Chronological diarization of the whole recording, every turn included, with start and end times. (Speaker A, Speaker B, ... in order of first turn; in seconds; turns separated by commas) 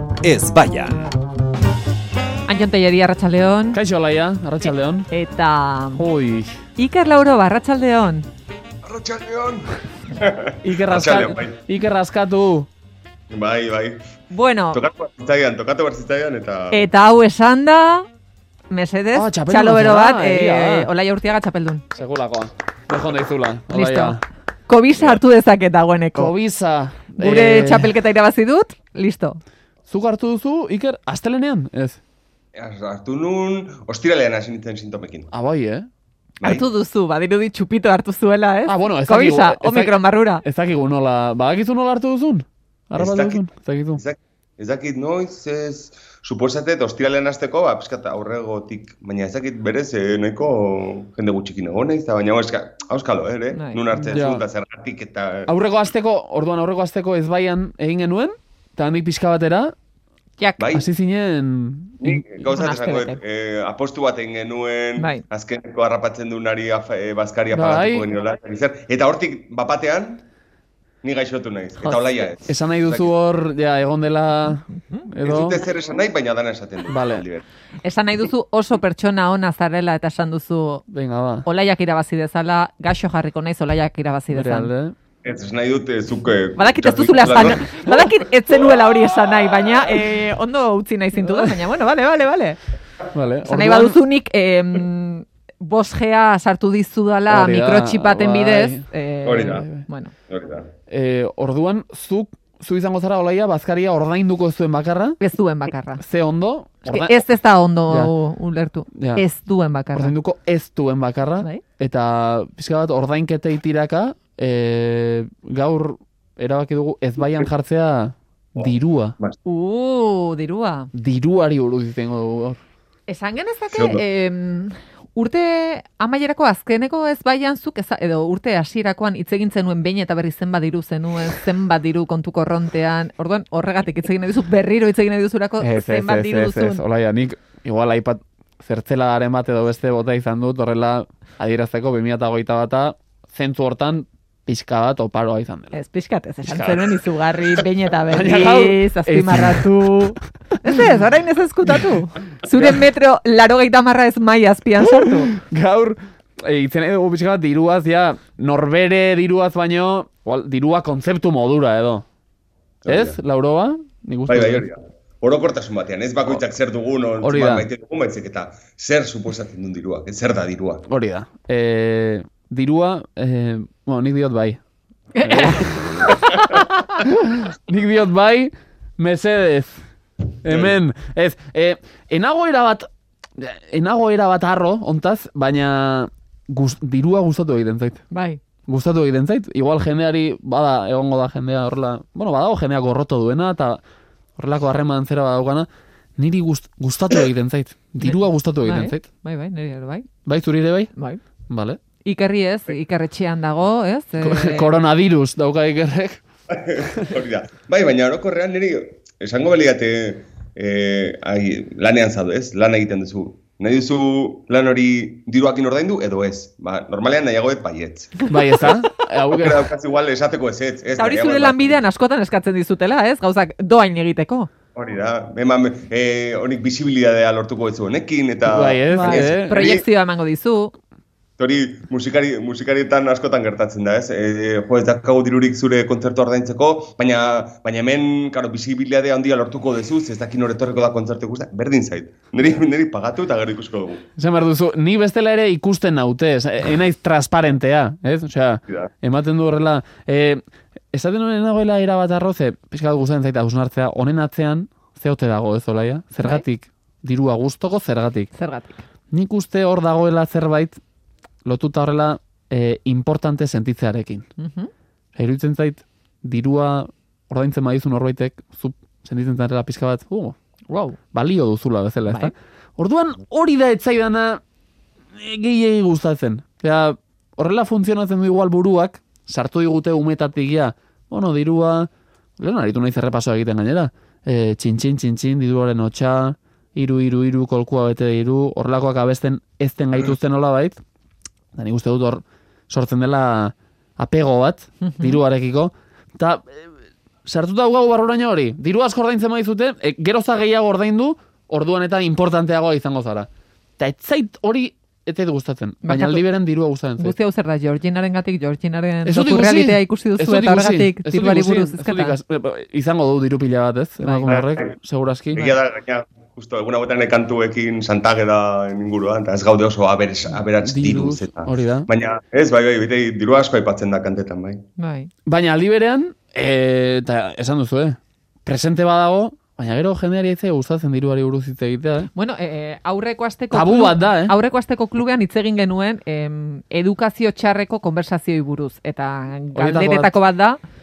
Speaker A: 2.5-3.8, Speaker B: 3.7-5.1, Speaker A: 5.1-6.0, Speaker B: 6.0-6.6, Speaker A: 6.8-8.3, Speaker C: 8.8-11.6, Speaker B: 10.6-12.7, Speaker C: 13.3-14.0, Speaker A: 14.3-14.8, Speaker C: 14.7-16.9, Speaker A: 16.7-18.1, Speaker A: 18.7-21.8, Speaker B: 19.1-20.9, Speaker B: 21.9-24.2, Speaker A: 23.7-26.3, Speaker B: 26.2-27.9, Speaker A: 27.2-29.4, Speaker B: 29.9-32.0, Speaker C: 32.6-35.3, Speaker B: 35.3-35.9, Speaker C: 36.4-36.6, Speaker A: 36.4-40.4, Speaker B: 38.7-39.9, Speaker B: 40.4-44.0, Speaker C: 42.9-55.5, Speaker A: 53.5-53.9, Speaker B: 54.0-54.4, Speaker B: 55.5-59.8, Speaker A: 60.4-60.7, Speaker C: 60.6-60.9, Speaker B: 60.7-62.2, Speaker C: 62.0-70.2, Speaker A: 62.4-63.2, Speaker A: 65.0-65.2, Speaker B: 67.5-68.1, Speaker C: 71.0-73.1, Speaker B: 72.5-75.6, Speaker C: 75.2-77.5, Speaker B: 76.9-77.3, Speaker A: 77.8-80.8, Speaker B: 80.9-81.5, Speaker A: 81.5-84.7, Speaker B: 84.3-85.0, Speaker C: 85.2-87.6, Speaker A: 86.6-92.6, Speaker B: 87.4-87.7, Speaker B: 91.2-91.5, Speaker B: 93.1-94.0, Speaker A: 93.4-100.1, Speaker B: 97.3-98.9, Speaker C: 99.2-99.6, Speaker B: 99.4-99.8, Speaker C: 100.3-100.7, Speaker B: 100.9-105.2, Speaker A: 105.2-106.0, Speaker B: 106.0-107.2, Speaker A: 106.8-110.1, Speaker B: 109.0-109.2, Speaker B: 109.9-119.2, Speaker A: 119.5-120.9, Speaker B: 120.9-122.6, Speaker A: 123.1-136.8, Speaker C: 123.7-124.0, Speaker B: 135.6-145.8, Speaker A: 145.7-155.3, Speaker B: 146.4-147.0, Speaker B: 148.1-150.1, Speaker B: 152.5-152.8, Speaker B: 154.8-162.1, Speaker C: 162.8-163.2, Speaker B: 162.9-164.7, Speaker C: 164.3-170.8, Speaker B: 167.2-167.7, Speaker B: 170.9-174.6, Speaker A: 175.1-177.0, Speaker B: 175.2-176.1, Speaker B: 177.0-179.8, Speaker B: 180.4-188.0, Speaker C: 180.5-180.8, Speaker A: 188.1-188.4, Speaker B: 188.7-193.8, Speaker B: 194.4-199.1, Speaker A: 198.0-200.1, Speaker B: 200.3-200.9, Speaker A: 200.9-201.2, Speaker B: 201.5-201.8, Speaker A: 202.0-204.7, Speaker B: 204.2-206.2, Speaker C: 206.5-218.2, Speaker B: 218.3-219.7, Speaker C: 219.3-221.8, Speaker A: 221.0-224.5, Speaker C: 224.8-229.9, Speaker B: 228.5-229.7, Speaker A: 228.9-230.7, Speaker C: 231.4-244.1, Speaker B: 244.2-250.4, Speaker B: 250.9-258.3, Speaker A: 256.2-256.4, Speaker A: 258.3-258.8, Speaker B: 259.1-260.8, Speaker B: 261.4-264.2, Speaker A: 264.4-264.7, Speaker B: 265.2-270.4, Speaker A: 270.7-271.0, Speaker B: 271.1-274.4, Speaker A: 272.1-272.3, Speaker B: 275.2-290.8, Speaker B: 291.6-296.7, Speaker A: 294.8-295.2, Speaker B: 297.2-307.1, Speaker A: 305.8-306.2, Speaker A: 307.0-312.2, Speaker B: 309.1-315.6, Speaker A: 314.0-314.3, Speaker C: 314.3-314.7, Speaker C: 315.4-324.6, Speaker B: 320.5-321.9, Speaker A: 324.8-325.1, Speaker B: 325.3-332.1, Speaker A: 332.1-340.6, Speaker B: 333.5-334.4, Speaker B: 339.6-340.1